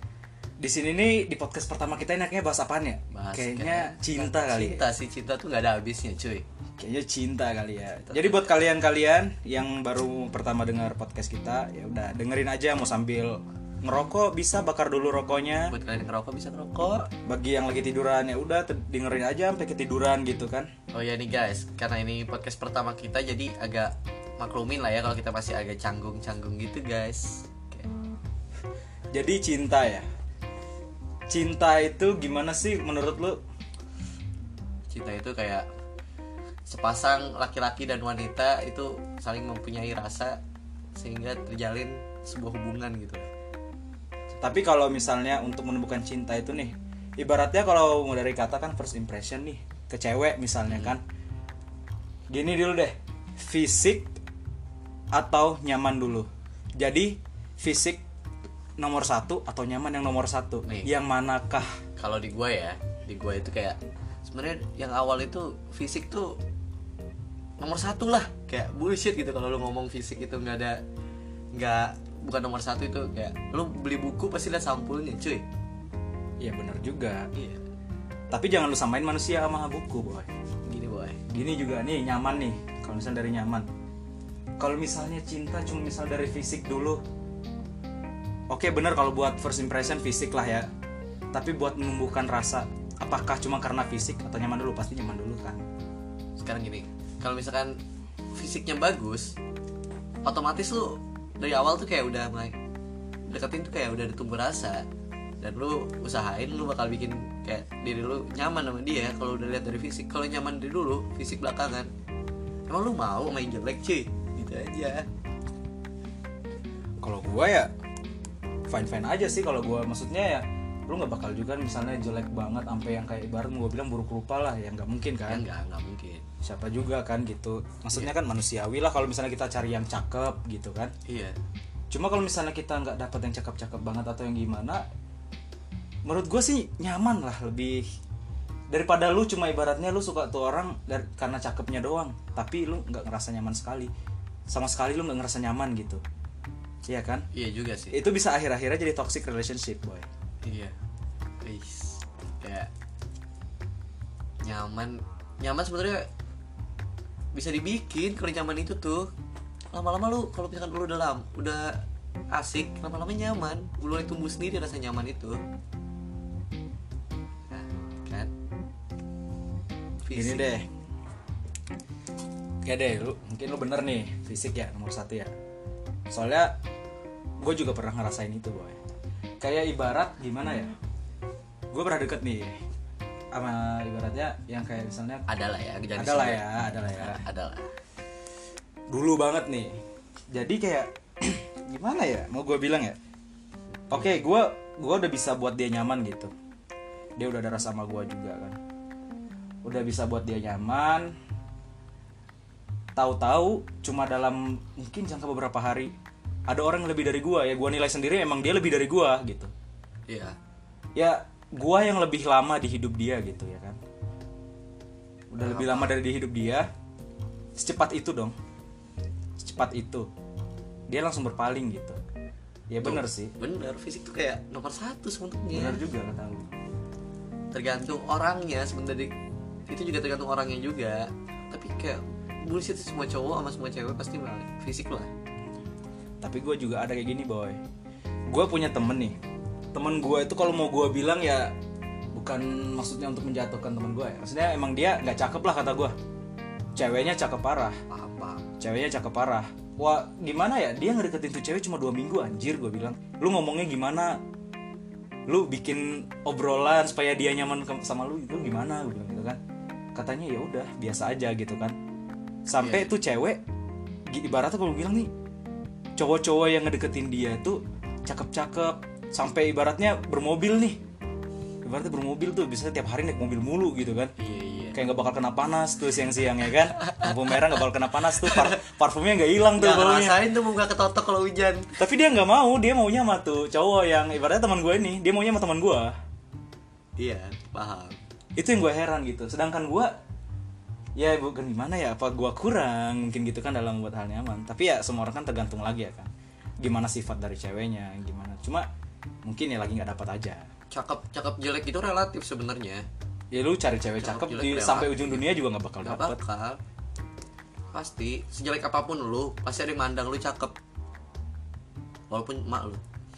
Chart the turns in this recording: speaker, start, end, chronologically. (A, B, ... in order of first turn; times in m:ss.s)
0:00.6-0:04.8 A
0:03.1-0:06.4 B
0:06.8-0:15.7 A
0:08.0-0:08.5 B
0:15.7-0:17.1 B
0:17.3-0:20.7 A
0:20.9-0:27.9 B
0:29.1-0:30.1 A
0:31.3-0:33.4 A
0:34.9-0:35.7 B
0:36.7-0:40.4 B
0:41.0-0:43.3 B
0:44.4-0:51.0 A
0:50.7-0:51.0 B
0:52.3-0:54.1 A
0:55.1-0:58.0 A
0:58.8-1:01.7 A
1:00.6-1:00.9 B
1:02.0-1:06.4 B
1:07.6-1:10.8 B
1:11.5-1:15.4 B
1:16.4-1:17.3 A
1:17.3-1:17.6 B
1:18.3-1:20.3 A
1:20.7-1:21.2 B
1:21.3-1:23.7 A
1:24.6-1:27.0 A
1:28.5-1:30.7 A
1:31.3-1:35.6 A
1:36.4-1:37.8 B
1:38.3-1:39.4 B
1:40.2-1:42.6 B
1:43.3-1:44.8 B
1:45.4-1:51.9 B
1:52.7-1:55.1 B
1:57.0-1:57.7 A
1:58.7-2:05.4 A
2:05.3-2:06.2 B
2:06.4-2:10.9 A
2:11.1-2:11.4 B
2:11.9-2:14.8 A
2:16.0-2:17.8 A
2:18.7-2:23.9 A
2:24.5-2:26.0 A
2:26.9-2:27.2 A
2:27.3-2:28.0 B
2:27.9-2:30.1 A
2:30.4-2:30.8 B
2:31.4-2:32.7 B
2:34.4-2:36.1 B
2:37.3-2:39.1 B
2:39.7-2:45.4 B
2:47.5-2:48.3 B
2:50.0-2:50.5 B
2:50.1-2:50.7 A
2:52.6-2:55.3 A
2:56.1-2:56.5 A
2:57.4-2:58.8 A
2:59.4-3:00.8 A
3:01.7-3:02.6 A
3:03.3-3:05.2 A
3:05.3-3:07.7 B
3:06.0-3:07.2 A
3:08.9-3:09.8 A
3:10.3-3:13.0 A
3:13.9-3:16.3 A
3:17.2-3:18.6 A
3:19.6-3:21.1 A
3:23.0-3:25.9 A
3:26.5-3:29.5 A
3:30.1-3:30.3 B
3:31.0-3:33.8 A
3:35.3-3:36.7 A
3:35.4-3:36.0 B
3:37.6-3:38.4 A
3:39.4-3:40.1 A
3:40.9-3:42.0 A
3:42.7-3:43.3 A
3:42.8-3:45.8 B
3:45.5-3:46.5 A
3:47.5-3:49.1 B
3:49.7-3:55.1 B
3:56.2-3:57.6 A
3:58.3-3:59.2 A
3:59.7-4:01.5 A
4:02.1-4:05.9 A
4:06.8-4:07.8 A
4:07.9-4:08.4 B
4:08.6-4:14.2 A
4:15.3-4:19.4 A
4:19.9-4:21.8 A
4:22.5-4:23.4 A
4:22.6-4:22.9 B
4:24.1-4:25.1 A
4:26.0-4:30.8 A
4:31.6-4:34.1 A
4:34.2-4:34.8 B
4:34.7-4:40.2 A
4:36.8-4:37.1 B
4:38.1-4:38.5 B
4:39.6-4:41.8 B
4:41.8-4:46.0 A
4:47.0-4:48.0 B
4:48.4-4:49.9 A
4:51.0-4:56.1 A
4:56.6-4:58.7 A
4:59.2-5:00.5 A
5:00.7-5:02.8 B
5:03.3-5:06.2 A
5:04.0-5:05.3 B
5:05.8-5:06.6 B
5:07.7-5:10.6 B
5:12.1-5:12.8 B